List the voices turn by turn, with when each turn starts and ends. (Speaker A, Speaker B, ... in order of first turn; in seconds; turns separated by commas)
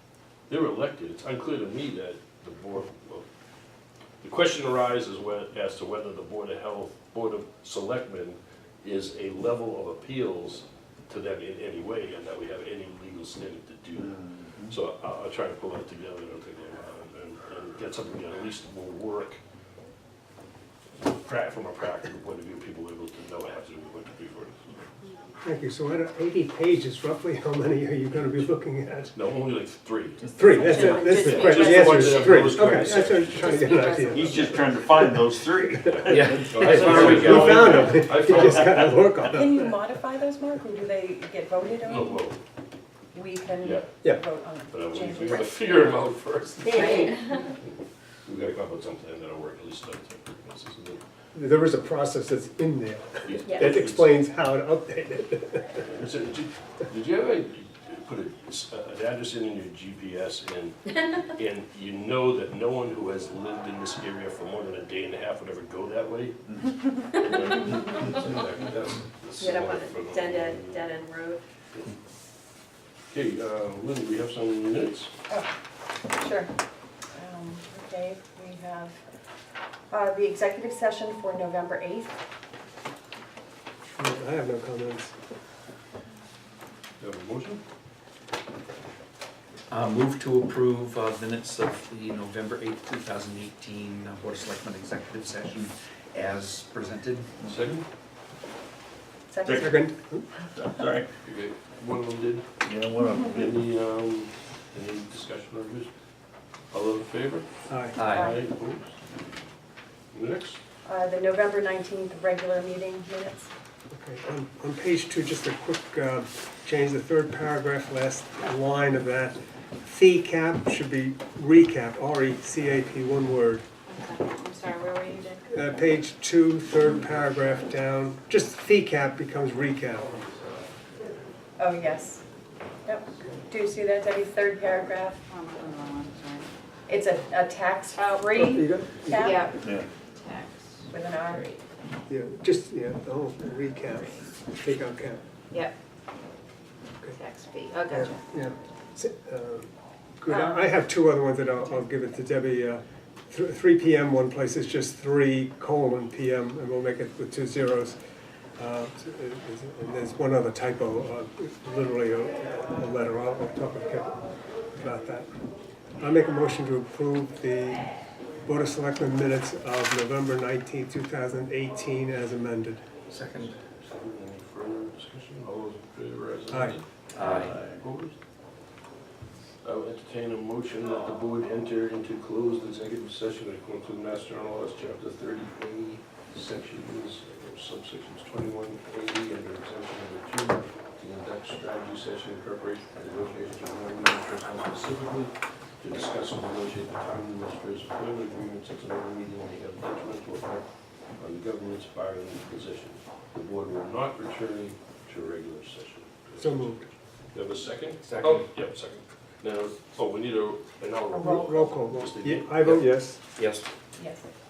Speaker A: 0.5-3.3, Speaker A: 4.2-19.4, Speaker A: 21.0-24.8, Speaker B: 25.4-29.2, Speaker A: 29.1-34.5, Speaker B: 30.4-34.4, Speaker C: 30.6-32.5, Speaker D: 33.7-34.7, Speaker E: 34.1-37.6, Speaker B: 34.9-39.8, Speaker A: 35.9-39.1, Speaker F: 36.1-37.8, Speaker D: 39.3-42.2, Speaker A: 41.8-42.4, Speaker D: 43.1-46.0, Speaker A: 43.6-43.9, Speaker A: 44.7-47.3, Speaker C: 46.6-47.4, Speaker D: 46.7-47.2, Speaker A: 48.3-51.0, Speaker B: 51.3-55.8, Speaker A: 53.2-54.1, Speaker C: 53.5-53.7, Speaker A: 55.8-70.9, Speaker C: 69.4-71.4, Speaker A: 73.1-75.1, Speaker D: 76.1-76.5, Speaker D: 77.1-79.0, Speaker D: 79.9-82.2, Speaker B: 84.0-85.1, Speaker A: 87.0-87.6, Speaker F: 89.7-97.4, Speaker A: 97.5-97.8, Speaker D: 99.3-99.7, Speaker E: 99.4-99.8, Speaker B: 99.6-100.2, Speaker E: 100.5-101.1, Speaker A: 101.2-102.5, Speaker E: 102.6-103.6, Speaker A: 103.2-105.9, Speaker A: 106.7-107.5, Speaker B: 107.7-108.0, Speaker F: 108.0-108.3, Speaker A: 108.0-108.9, Speaker D: 108.1-108.5, Speaker A: 110.1-110.6, Speaker D: 110.8-113.5, Speaker B: 113.9-123.6, Speaker C: 123.9-125.6, Speaker B: 125.5-130.2, Speaker A: 130.2-130.5, Speaker D: 131.6-132.2, Speaker D: 132.8-135.2, Speaker C: 135.3-136.5, Speaker D: 136.9-139.6, Speaker C: 138.0-138.6, Speaker B: 138.4-139.5, Speaker C: 139.1-139.6, Speaker E: 139.6-139.9, Speaker C: 140.2-140.9, Speaker D: 140.9-141.5, Speaker B: 142.1-145.2, Speaker C: 147.1-148.2, Speaker B: 147.9-158.0, Speaker D: 150.3-150.7, Speaker B: 158.6-164.2, Speaker B: 164.7-165.4, Speaker B: 166.0-172.9, Speaker F: 173.1-173.5, Speaker A: 173.4-178.2, Speaker B: 176.5-176.8, Speaker F: 177.1-177.6, Speaker E: 177.2-177.7, Speaker A: 179.6-200.7, Speaker A: 201.2-206.8, Speaker B: 206.4-206.9, Speaker A: 207.3-212.9, Speaker F: 208.0-208.5, Speaker D: 211.1-211.7, Speaker B: 211.2-213.2, Speaker F: 212.6-213.7, Speaker D: 214.0-214.3